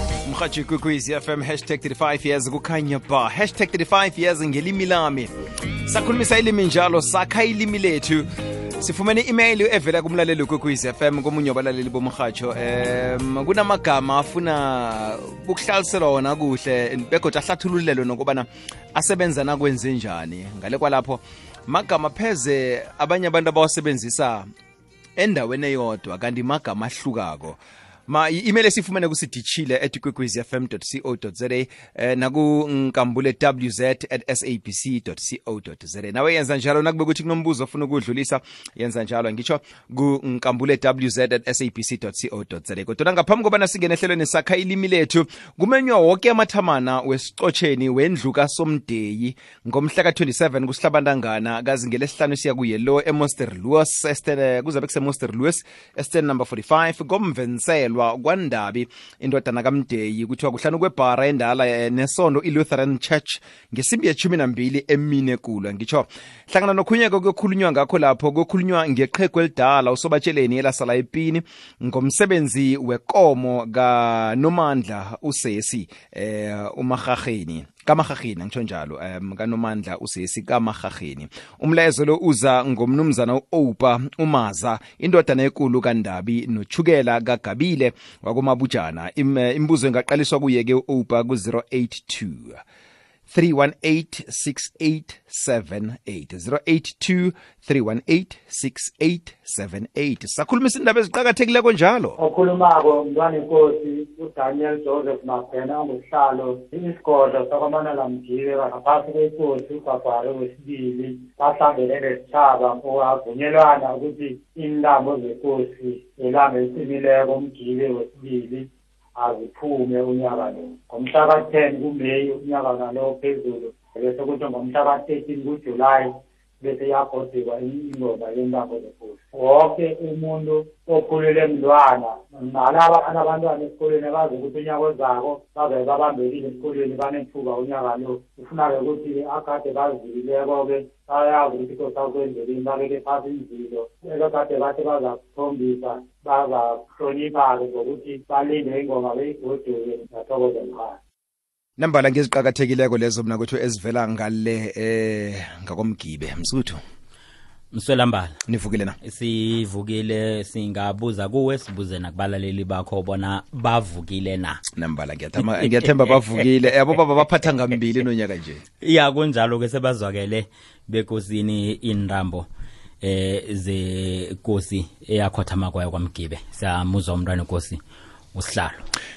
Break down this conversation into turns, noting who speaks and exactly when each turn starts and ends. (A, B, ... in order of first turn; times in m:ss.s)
0:00.2-0:05.3 A
0:05.8-0:24.5 A
0:25.2-1:32.6 A
1:33.3-1:42.2 A
1:42.2-1:58.7 B
1:59.2-2:06.1 B
2:06.6-2:31.0 B
2:31.8-2:36.8 A
2:37.7-2:38.4 C
2:38.5-2:39.0 A
2:39.0-2:44.6 C
2:44.8-2:48.6 A
2:45.4-2:46.5 C
2:48.8-2:52.5 C
2:53.0-2:57.8 C
2:58.3-2:58.8 C